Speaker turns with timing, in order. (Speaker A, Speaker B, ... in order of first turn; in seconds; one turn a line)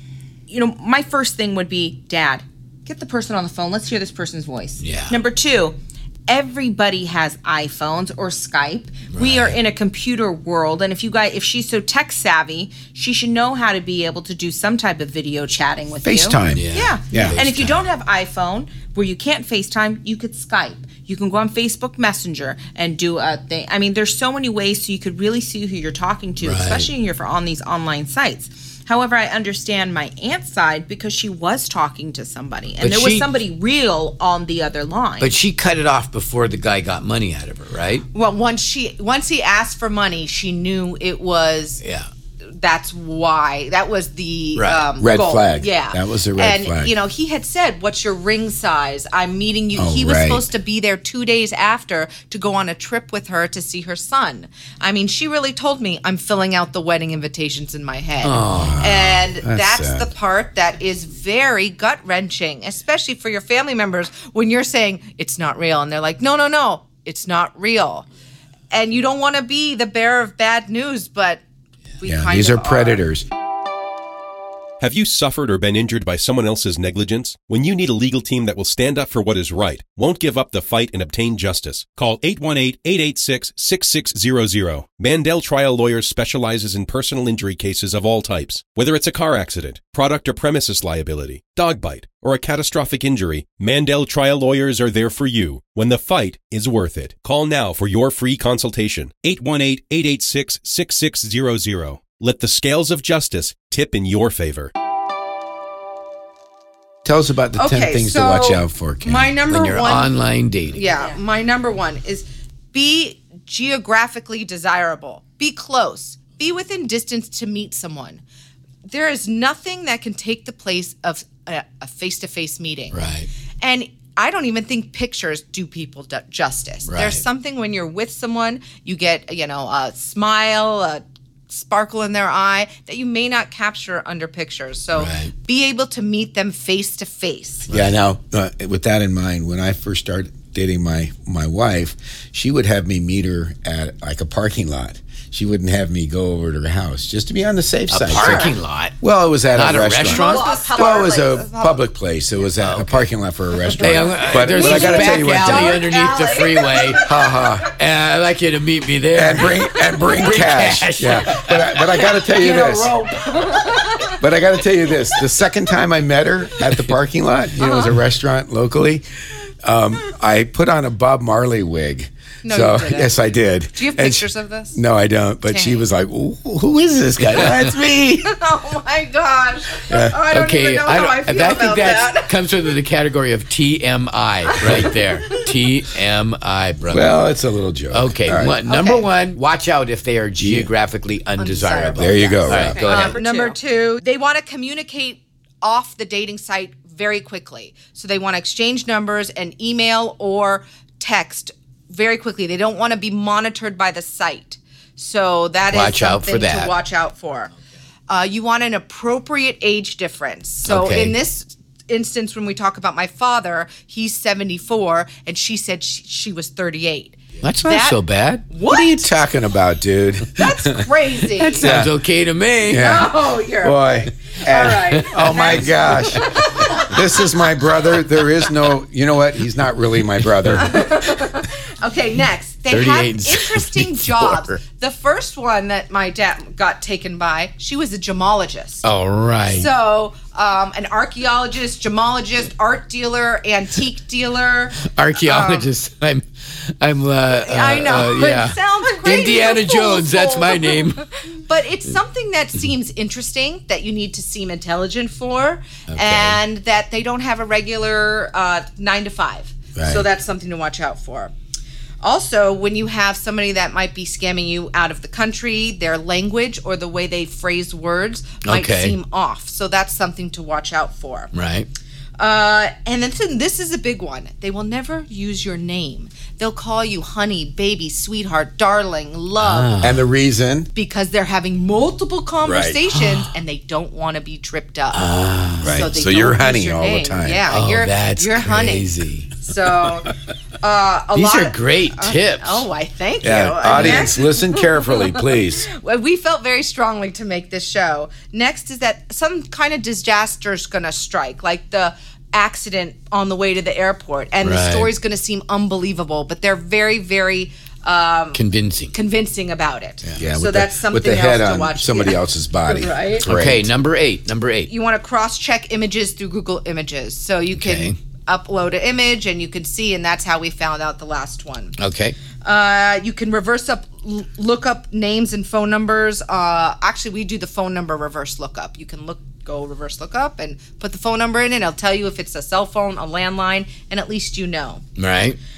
Speaker A: 0.5-3.1
Speaker B: 3.1-3.7
Speaker A: 3.7-5.7
Speaker C: 4.8-5.2
Speaker A: 6.3-30.3
Speaker C: 9.1-9.6
Speaker D: 16.0-17.4
Speaker C: 16.5-17.8
Speaker C: 26.4-26.9
Speaker B: 30.4-31.8
Speaker A: 30.8-31.2
Speaker A: 31.9-33.4
Speaker C: 32.8-33.3
Speaker B: 33.4-35.3
Speaker C: 35.2-38.0
Speaker B: 38.1-41.8
Speaker C: 41.8-42.1
Speaker B: 42.6-68.1
Speaker C: 44.5-44.8
Speaker D: 45.0-46.9
Speaker D: 49.7-50.5
Speaker C: 58.2-58.8
Speaker D: 58.5-60.1
Speaker B: 68.7-71.4
Speaker B: 72.0-73.0
Speaker D: 72.0-73.3
Speaker E: 74.8-104.7
Speaker D: 107.0-109.4
Speaker B: 107.5-110.1
Speaker C: 109.5-110.8
Speaker B: 110.7-118.2
Speaker B: 118.9-123.0
Speaker C: 122.9-123.3
Speaker B: 123.6-137.7
Speaker C: 126.9-127.2
Speaker C: 134.9-135.3
Speaker C: 137.7-137.9
Speaker D: 137.7-155.8
Speaker C: 147.9-148.9
Speaker B: 148.2-148.5
Speaker C: 149.5-150.4
Speaker B: 150.1-151.8
Speaker A: 150.5-151.2
Speaker C: 152.6-153.1
Speaker C: 153.8-157.0
Speaker A: 154.5-156.9
Speaker B: 154.5-157.0
Speaker D: 157.0-157.7
Speaker C: 157.7-162.0
Speaker D: 159.1-163.0
Speaker B: 162.4-164.1
Speaker D: 164.1-169.1
Speaker D: 169.6-178.3
Speaker B: 172.4-173.2
Speaker B: 173.8-174.8
Speaker B: 175.5-175.8
Speaker C: 177.2-177.6
Speaker B: 178.2-182.4
Speaker C: 179.9-187.2
Speaker D: 186.9-188.5
Speaker C: 187.9-193.2
Speaker B: 188.6-189.1
Speaker D: 190.4-190.7
Speaker B: 191.4-207.5
Speaker D: 191.9-192.8
Speaker A: 192.7-193.6
Speaker C: 205.7-206.7
Speaker B: 208.1-218.0
Speaker C: 210.6-211.2
Speaker C: 217.4-218.4
Speaker B: 218.5-219.1
Speaker D: 218.6-221.9
Speaker B: 220.4-221.7
Speaker C: 221.5-223.0
Speaker D: 222.6-230.9
Speaker B: 222.7-223.8
Speaker B: 224.4-226.9
Speaker C: 224.9-226.9
Speaker C: 230.2-230.6
Speaker B: 230.6-238.8
Speaker C: 232.7-234.6
Speaker C: 238.8-239.7
Speaker B: 239.4-245.7
Speaker C: 244.8-251.0
Speaker B: 247.4-250.7
Speaker B: 251.3-261.3
Speaker C: 255.9-256.4
Speaker D: 259.8-260.1
Speaker B: 262.0-271.3
Speaker C: 268.4-268.9
Speaker C: 271.3-271.7
Speaker B: 272.2-279.7
Speaker C: 279.4-280.1
Speaker D: 279.8-280.7
Speaker B: 280.7-285.1
Speaker D: 282.4-282.8
Speaker C: 282.9-283.3
Speaker C: 284.9-285.8
Speaker D: 285.6-287.5
Speaker B: 285.6-308.4
Speaker C: 287.5-289.3
Speaker C: 291.1-292.6
Speaker D: 293.2-295.6
Speaker C: 293.7-294.1
Speaker C: 304.4-304.9
Speaker C: 308.3-308.9
Speaker B: 308.9-312.2
Speaker D: 310.2-313.7
Speaker B: 312.7-313.2
Speaker C: 313.2-314.7
Speaker B: 314.7-321.8
Speaker C: 317.5-318.0
Speaker C: 321.8-322.1
Speaker B: 322.4-334.8
Speaker C: 335.0-335.4